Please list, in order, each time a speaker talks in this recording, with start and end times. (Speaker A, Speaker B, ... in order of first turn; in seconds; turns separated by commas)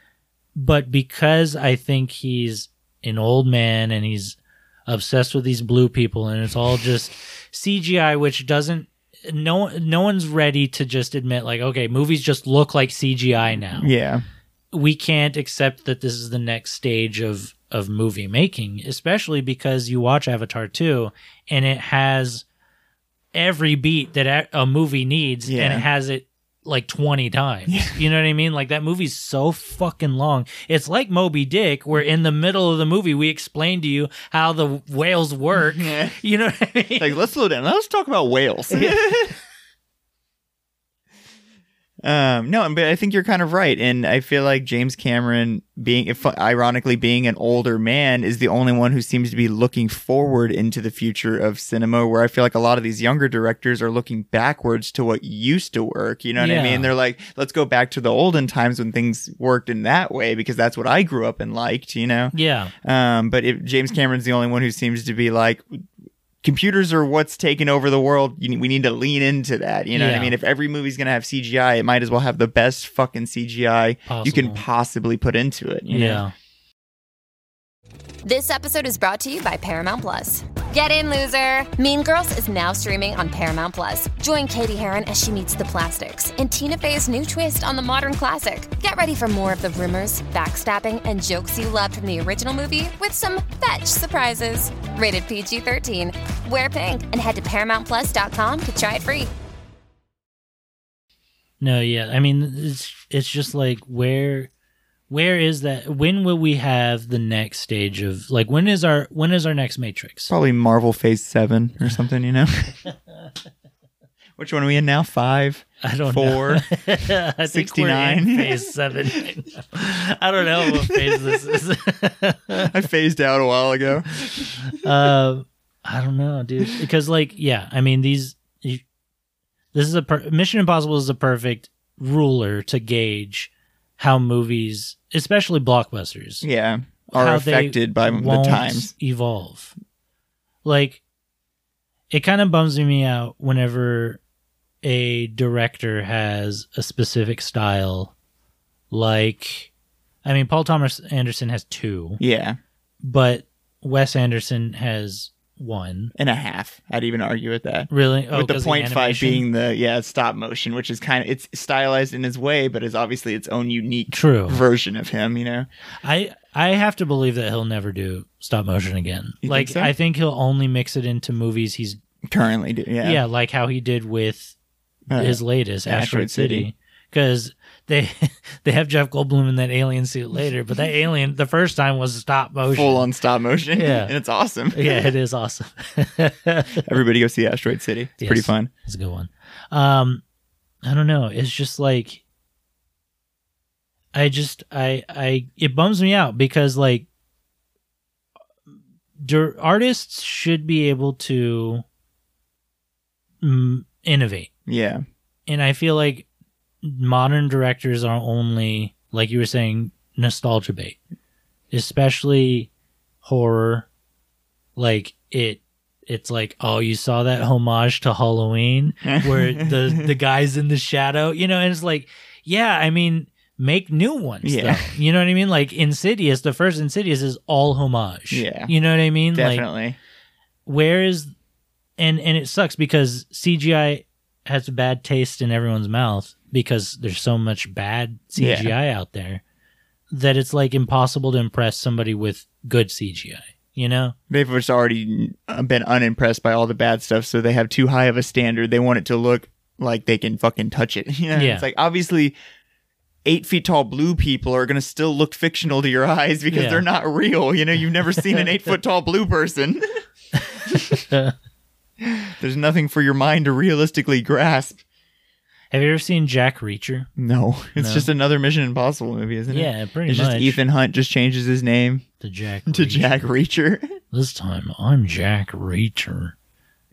Speaker A: 0.6-13.9, Speaker B: 13.8-14.2, Speaker A: 14.7-22.4, Speaker A: 23.3-37.2, Speaker B: 25.5-25.9, Speaker B: 27.7-28.0, Speaker B: 35.5-36.2, Speaker B: 37.0-39.4, Speaker A: 38.7-39.3, Speaker B: 42.0-65.8, Speaker A: 56.4-56.9, Speaker A: 62.3-62.7, Speaker B: 66.4-76.2, Speaker A: 69.9-70.3, Speaker A: 74.1-74.6, Speaker A: 75.9-76.3, Speaker C: 78.2-99.3, Speaker A: 101.6-104.5, Speaker A: 105.1-110.3, Speaker B: 110.3-112.8, Speaker B: 114.4-116.7, Speaker A: 115.8-122.7, Speaker B: 117.5-118.7, Speaker B: 120.6-121.3, Speaker B: 122.6-124.6, Speaker A: 124.7-128.8, Speaker A: 129.7-136.5, Speaker B: 136.4-138.9, Speaker A: 137.1-139.7, Speaker A: 140.7-141.0, Speaker A: 142.1-144.2, Speaker A: 144.8-148.1, Speaker A: 148.9-149.7, Speaker A: 150.2-152.2, Speaker B: 152.2-152.6, Speaker A: 153.0-156.1, Speaker B: 156.2-165.7, Speaker A: 157.9-159.5, Speaker A: 164.1-164.6, Speaker A: 166.0-172.0, Speaker B: 169.4-169.9, Speaker B: 172.3-173.2, Speaker A: 173.0-174.6, Speaker B: 175.1-176.7, Speaker A: 175.1-183.1, Speaker B: 182.7-185.1, Speaker A: 183.8-184.1, Speaker A: 184.7-186.8, Speaker B: 186.8-188.7, Speaker A: 188.2-190.2, Speaker A: 190.8-192.2, Speaker A: 194.1-197.1, Speaker A: 199.2-201.8, Speaker A: 203.4-204.5, Speaker B: 204.7-205.0, Speaker A: 205.5-206.3, Speaker A: 206.8-211.0, Speaker A: 211.7-212.7, Speaker A: 213.2-213.9, Speaker A: 214.8-229.7, Speaker B: 219.0-220.1, Speaker B: 224.4-224.9, Speaker B: 228.3-228.7, Speaker B: 229.3-230.0, Speaker A: 230.7-231.3, Speaker A: 232.0-239.4, Speaker B: 238.4-238.7, Speaker A: 240.1-244.2, Speaker B: 244.3-252.4, Speaker A: 251.3-251.7, Speaker B: 253.2-259.8, Speaker A: 256.5-256.9, Speaker B: 260.7-261.0, Speaker B: 262.0-264.8, Speaker A: 265.7-267.1, Speaker B: 267.2-272.1, Speaker A: 267.8-268.1, Speaker A: 269.5-270.6, Speaker A: 272.2-273.3, Speaker B: 272.7-273.9, Speaker A: 274.1-276.4